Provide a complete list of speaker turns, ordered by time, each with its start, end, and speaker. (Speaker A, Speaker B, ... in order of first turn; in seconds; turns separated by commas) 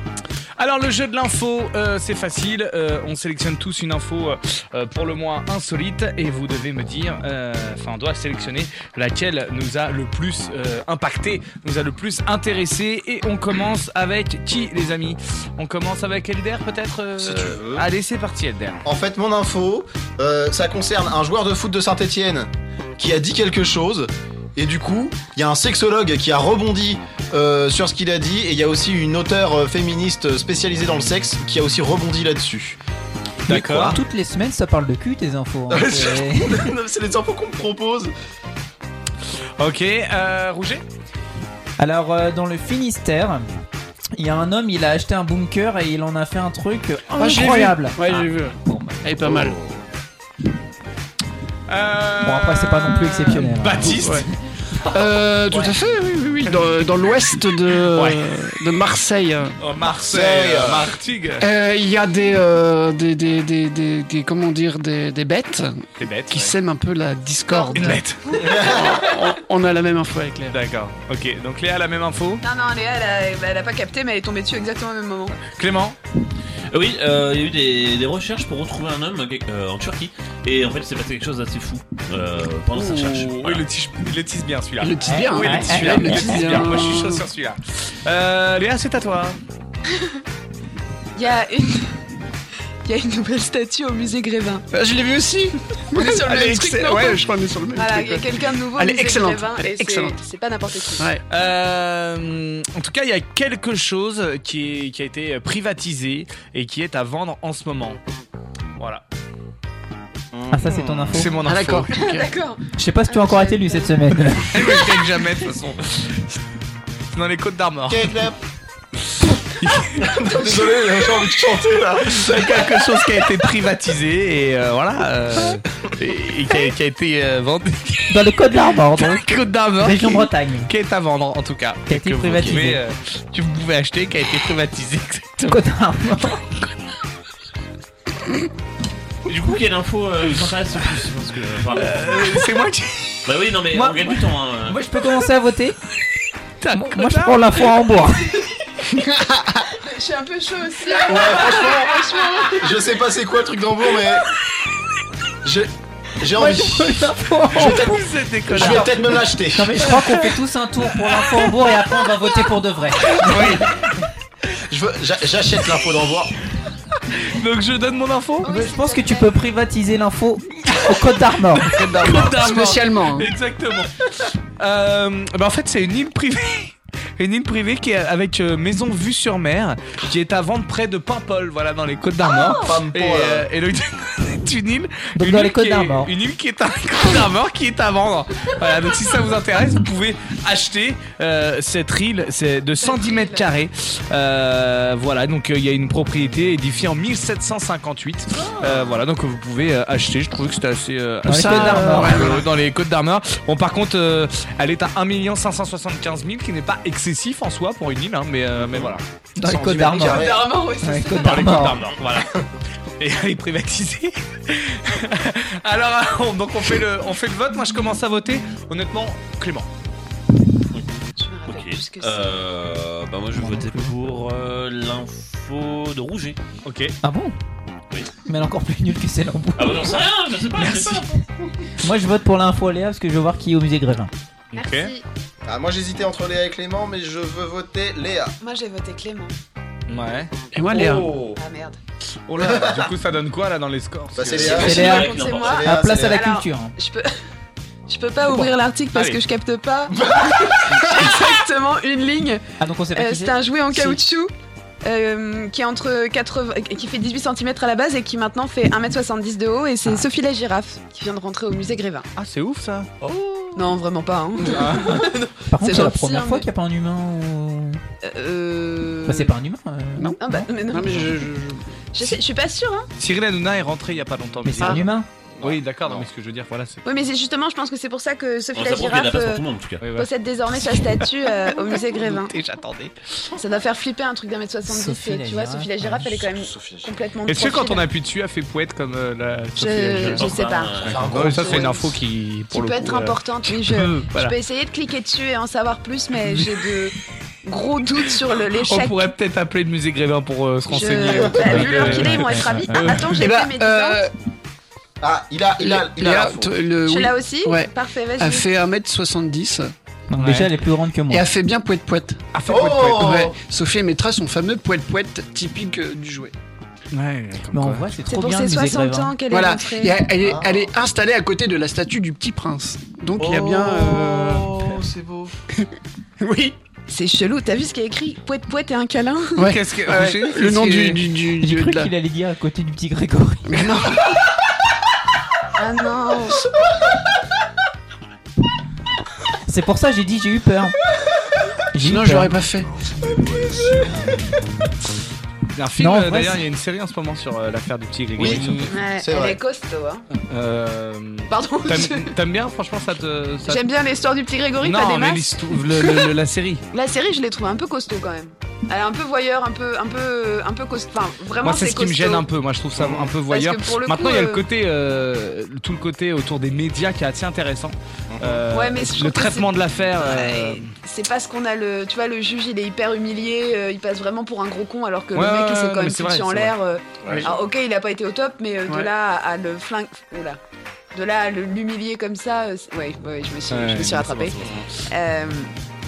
Speaker A: 0.6-18.8, Speaker B: 17.3-17.6, Speaker B: 18.8-32.8, Speaker C: 33.5-36.6, Speaker A: 33.5-34.0, Speaker B: 35.7-38.1, Speaker A: 39.6-40.8, Speaker C: 41.8-43.4, Speaker C: 44.1-49.0, Speaker D: 47.1-49.6, Speaker A: 51.7-54.3, Speaker C: 52.2-54.0, Speaker D: 54.0-54.2, Speaker D: 54.9-59.6, Speaker A: 57.9-58.3, Speaker A: 59.6-61.5, Speaker B: 60.1-60.9, Speaker D: 61.4-70.6, Speaker A: 66.0-66.5, Speaker E: 67.5-68.0, Speaker A: 67.7-68.2, Speaker B: 68.4-68.8, Speaker A: 70.5-72.4, Speaker E: 72.4-75.4, Speaker A: 75.4-76.0, Speaker F: 76.7-83.7, Speaker A: 82.9-89.4, Speaker D: 84.8-87.2, Speaker C: 85.0-86.3, Speaker E: 91.1-92.0, Speaker E: 92.8-94.6, Speaker D: 94.7-100.2, Speaker E: 95.9-101.1, Speaker A: 101.3-108.0, Speaker A: 108.8-109.0, Speaker B: 110.3-111.2, Speaker C: 110.5-111.4, Speaker A: 111.1-111.9, Speaker D: 111.4-112.3, Speaker E: 111.9-114.0, Speaker C: 112.8-114.6, Speaker A: 114.5-116.2, Speaker A: 117.2-118.1, Speaker B: 117.9-118.3, Speaker A: 119.6-120.8, Speaker B: 120.1-122.6, Speaker A: 122.0-128.3, Speaker C: 128.1-129.2, Speaker A: 128.9-135.6, Speaker C: 129.8-130.7, Speaker C: 131.9-132.8, Speaker C: 135.5-136.5, Speaker F: 139.2-142.4, Speaker A: 141.7-143.2, Speaker F: 143.2-144.8, Speaker C: 143.7-145.8, Speaker A: 146.6-147.6, Speaker C: 146.7-148.2, Speaker E: 149.7-152.9, Speaker B: 151.1-152.0, Speaker B: 152.5-154.2, Speaker B: 155.4-156.9, Speaker C: 156.3-158.9, Speaker A: 157.5-158.9, Speaker B: 158.5-159.9, Speaker C: 159.5-163.7, Speaker D: 163.3-163.6, Speaker B: 164.7-166.3, Speaker A: 167.2-168.5, Speaker E: 168.4-169.3, Speaker C: 168.4-171.7, Speaker D: 171.6-173.3, Speaker A: 171.8-209.0, Speaker B: 182.4-183.5, Speaker C: 185.1-186.1, Speaker E: 192.8-193.5, Speaker C: 201.2-202.3, Speaker D: 201.3-202.5, Speaker C: 209.4-211.8, Speaker B: 209.4-210.4, Speaker E: 209.9-211.7, Speaker A: 211.2-212.3, Speaker A: 213.0-219.7, Speaker E: 221.2-222.3, Speaker F: 221.5-226.4, Speaker C: 223.3-224.0, Speaker A: 226.6-226.9, Speaker C: 227.0-227.3, Speaker C: 228.3-229.9, Speaker F: 229.6-231.1, Speaker C: 231.8-234.1, Speaker A: 234.5-234.9, Speaker E: 234.5-235.0, Speaker B: 235.4-238.3, Speaker E: 238.4-239.3, Speaker A: 239.9-240.3, Speaker D: 240.5-241.1, Speaker E: 241.3-241.8, Speaker A: 242.3-244.5, Speaker B: 242.4-242.9, Speaker B: 244.1-246.2, Speaker F: 244.2-245.7, Speaker E: 244.4-247.1, Speaker C: 244.5-246.7, Speaker E: 247.9-252.4, Speaker A: 248.9-249.2, Speaker B: 249.9-250.8, Speaker C: 252.6-254.0, Speaker E: 252.9-254.3, Speaker E: 254.8-262.1, Speaker A: 262.1-262.9, Speaker E: 263.5-266.5, Speaker A: 264.5-264.9, Speaker C: 265.5-267.8, Speaker E: 268.0-269.3, Speaker C: 269.1-270.5, Speaker E: 270.2-271.1, Speaker D: 270.7-271.6, Speaker E: 271.9-272.9, Speaker A: 273.0-274.9, Speaker C: 274.4-275.1, Speaker A: 275.4-276.8, Speaker B: 275.4-276.1, Speaker E: 276.8-282.4, Speaker F: 278.5-279.8, Speaker A: 279.8-280.1, Speaker A: 280.7-282.9, Speaker E: 283.4-287.9, Speaker C: 284.6-286.3, Speaker B: 286.6-286.9, Speaker A: 287.2-290.3, Speaker E: 289.6-299.1, Speaker F: 289.9-291.6, Speaker B: 290.8-291.6, Speaker A: 290.9-294.3, Speaker A: 298.5-303.2, Speaker E: 300.7-304.0, Speaker C: 302.1-302.9, Speaker D: 303.1-304.1, Speaker B: 305.0-306.6, Speaker D: 305.6-309.7, Speaker E: 306.8-308.4, Speaker C: 310.1-311.2, Speaker A: 310.2-310.5, Speaker D: 311.1-312.2, Speaker A: 312.3-313.2, Speaker B: 312.5-313.3, Speaker D: 312.9-316.3, Speaker A: 316.9-317.9, Speaker C: 317.5-319.1, Speaker E: 318.1-320.0, Speaker D: 319.3-324.5, Speaker B: 320.2-320.7, Speaker B: 323.2-325.3, Speaker D: 326.2-326.6, Speaker E: 326.9-329.5, Speaker D: 329.4-331.9, Speaker A: 329.5-331.0, Speaker C: 331.4-333.6, Speaker D: 333.5-334.1, Speaker E: 335.6-336.4, Speaker C: 339.5-340.7, Speaker C: 341.7-342.3, Speaker D: 341.8-342.7, Speaker A: 345.5-348.7, Speaker C: 345.8-346.4, Speaker B: 348.2-349.4, Speaker E: 348.7-350.1, Speaker A: 350.1-353.6, Speaker E: 351.3-352.2, Speaker E: 353.4-355.4, Speaker A: 354.6-356.6, Speaker E: 356.7-362.3, Speaker A: 361.4-370.7, Speaker B: 362.7-363.1, Speaker E: 363.2-364.4, Speaker B: 368.1-368.4, Speaker E: 368.5-380.4, Speaker A: 375.1-376.5, Speaker B: 377.0-377.3, Speaker E: 380.9-385.5, Speaker A: 383.5-384.4